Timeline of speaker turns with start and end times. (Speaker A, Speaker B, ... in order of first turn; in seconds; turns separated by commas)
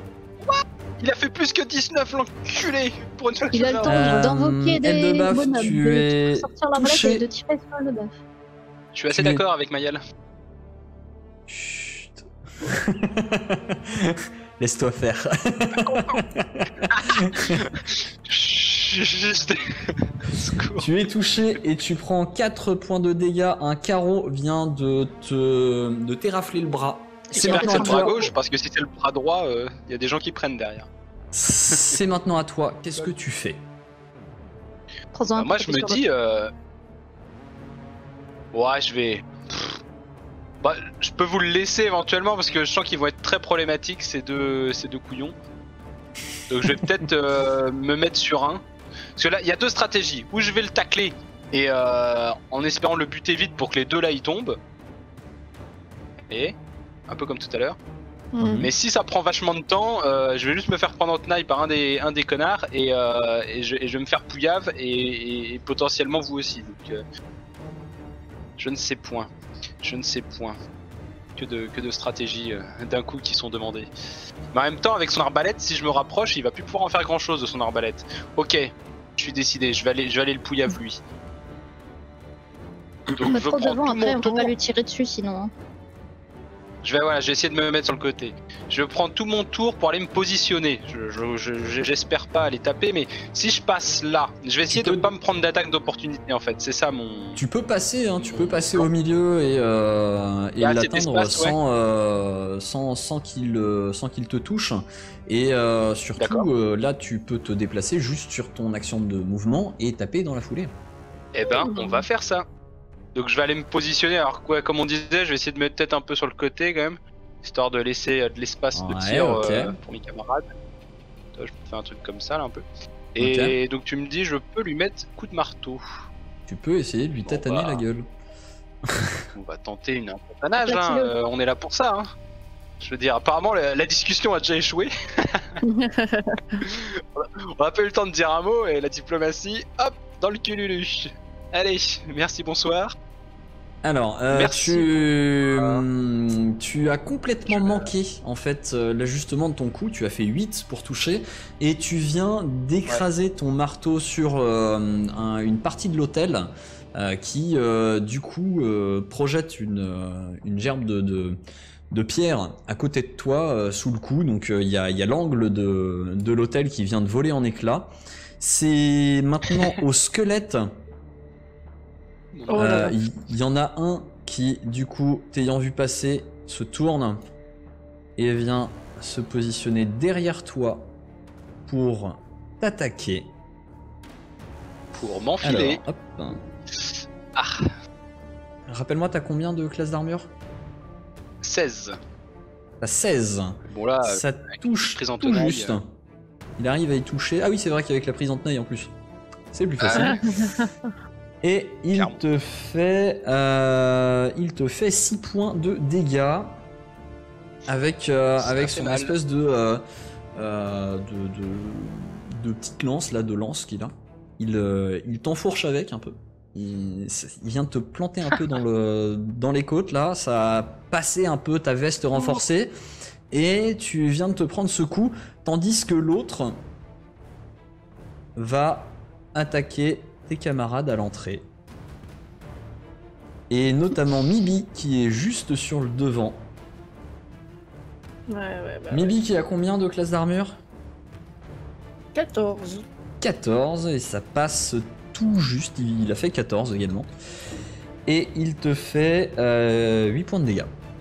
Speaker A: 0.4-4.1, Speaker B: 3.5-8.1, Speaker C: 3.8-7.2, Speaker A: 8.9-10.0, Speaker C: 9.1-9.4, Speaker C: 11.5-17.6, Speaker A: 15.8-16.2, Speaker A: 16.9-20.9, Speaker C: 20.8-28.3, Speaker B: 27.3-28.3, Speaker A: 27.4-30.9, Speaker C: 31.3-33.6, Speaker A: 31.7-32.0, Speaker B: 35.1-36.0, Speaker A: 35.3-36.5, Speaker A: 38.5-39.8, Speaker A: 40.6-45.4, Speaker A: 46.5-48.6, Speaker A: 49.2-54.6, Speaker A: 56.3-56.5, Speaker A: 57.1-57.8, Speaker D: 58.3-58.6, Speaker C: 58.4-58.7, Speaker A: 58.6-67.0, Speaker A: 68.6-69.3, Speaker A: 69.8-70.6, Speaker A: 71.4-73.9, Speaker A: 74.5-81.0, Speaker A: 83.1-84.5, Speaker B: 83.2-85.5, Speaker A: 86.8-97.4, Speaker C: 94.7-95.1, Speaker C: 97.4-110.8, Speaker A: 98.2-98.9, Speaker A: 100.6-101.5, Speaker A: 106.2-106.5, Speaker A: 111.3-112.4, Speaker D: 111.5-112.0, Speaker A: 113.1-120.5, Speaker C: 118.8-119.8, Speaker A: 121.3-125.8, Speaker C: 123.2-123.6, Speaker C: 126.5-128.1, Speaker A: 127.2-127.8, Speaker C: 128.9-129.2, Speaker A: 129.3-132.1, Speaker B: 130.6-131.1, Speaker A: 132.8-135.5, Speaker D: 135.6-136.6, Speaker A: 136.6-142.9, Speaker C: 143.8-161.4, Speaker A: 144.3-144.9, Speaker A: 145.4-145.8, Speaker A: 147.5-147.9, Speaker C: 161.9-170.8, Speaker A: 172.3-172.9, Speaker D: 172.5-172.9, Speaker C: 172.6-177.2, Speaker C: 178.2-180.9, Speaker C: 181.7-183.3, Speaker A: 184.9-185.8, Speaker C: 185.4-186.4, Speaker A: 187.4-187.7, Speaker C: 188.7-190.3, Speaker A: 191.4-192.0, Speaker C: 192.8-195.9, Speaker A: 193.7-195.8, Speaker C: 196.6-198.9, Speaker C: 199.5-200.1, Speaker A: 199.8-200.1, Speaker D: 199.9-200.9, Speaker C: 201.4-206.6, Speaker A: 201.9-202.2, Speaker C: 207.7-209.8, Speaker A: 208.4-209.1, Speaker C: 210.4-222.7, Speaker A: 222.2-222.4, Speaker C: 223.3-226.6, Speaker C: 228.4-231.5, Speaker C: 233.5-236.5, Speaker D: 238.3-239.1, Speaker C: 238.9-240.6, Speaker D: 242.1-242.8, Speaker C: 243.2-247.1, Speaker C: 248.1-250.7